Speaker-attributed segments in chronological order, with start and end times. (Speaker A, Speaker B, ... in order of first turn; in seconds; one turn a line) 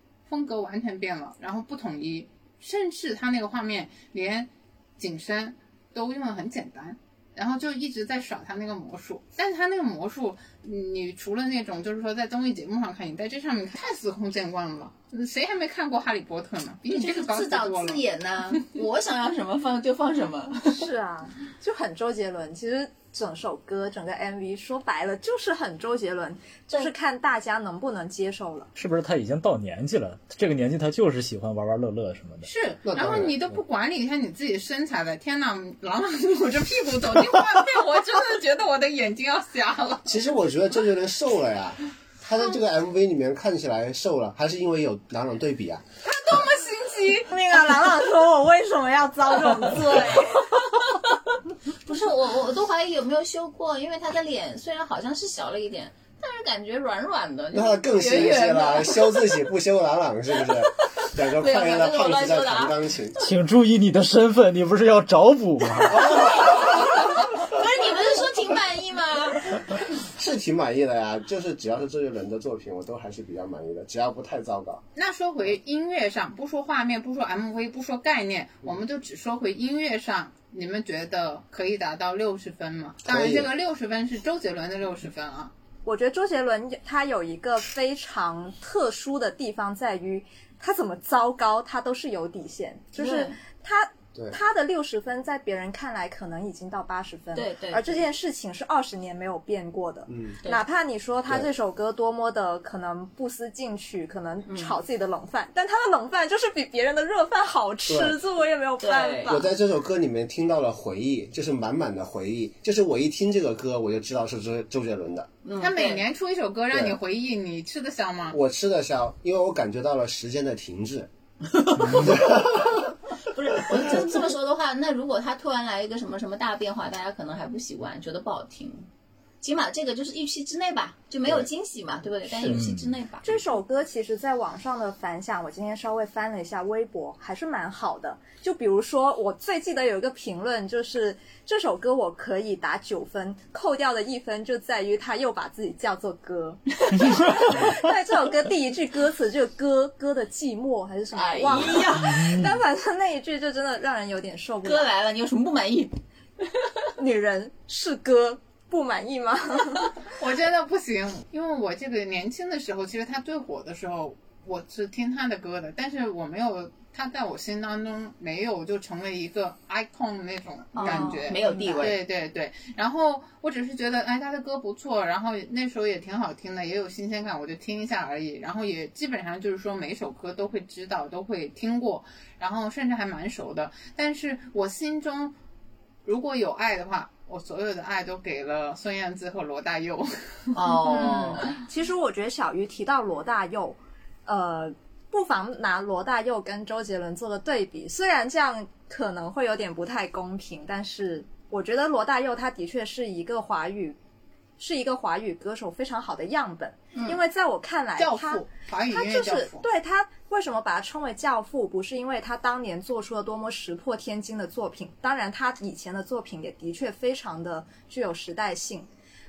Speaker A: 0.3-18.0
Speaker B: 16.9-20.9
Speaker C: 20.7-28.7
Speaker D: 28.8-32.5
Speaker A: 32.4-40.1
Speaker E: 32.8-33.5
Speaker E: 40.1-45.8
Speaker A: 46.0-47.3
Speaker C: 47.3-50.6
Speaker B: 51.8-59.4
Speaker E: 57.5-63.2
Speaker B: 60.8-62.8
Speaker D: 63.2-66.0
Speaker E: 65.9-67.4
Speaker B: 66.0-69.6
Speaker E: 70.0-74.8
Speaker A: 75.0-85.5
Speaker E: 83.0-83.5
Speaker C: 85.8-109.5
Speaker B: 93.0-93.4
Speaker B: 97.3-98.1
Speaker E: 100.1-100.3
Speaker B: 104.5-104.8
Speaker E: 107.9-108.2
Speaker B: 108.8-109.4
Speaker E: 109.3-115.3
Speaker B: 115.4-116.0
Speaker A: 115.6-118.4
Speaker E: 118.3-121.1
Speaker E: 121.9-122.8
Speaker B: 123.2-128.9
Speaker E: 123.7-124.1
Speaker B: 129.4-133.4
Speaker D: 132.3-133.0
Speaker C: 133.2-154.9
Speaker B: 146.9-147.7
Speaker B: 151.1-152.1
Speaker D: 152.2-152.5
Speaker B: 154.6-156.9
Speaker C: 157.0-159.9
Speaker A: 160.2-185.3
Speaker B: 170.7-172.0
Speaker A: 186.1-191.5
Speaker B: 190.6-191.6
Speaker C: 191.0-204.0
Speaker C: 204.6-218.9
Speaker B: 206.9-207.2
Speaker A: 208.0-209.7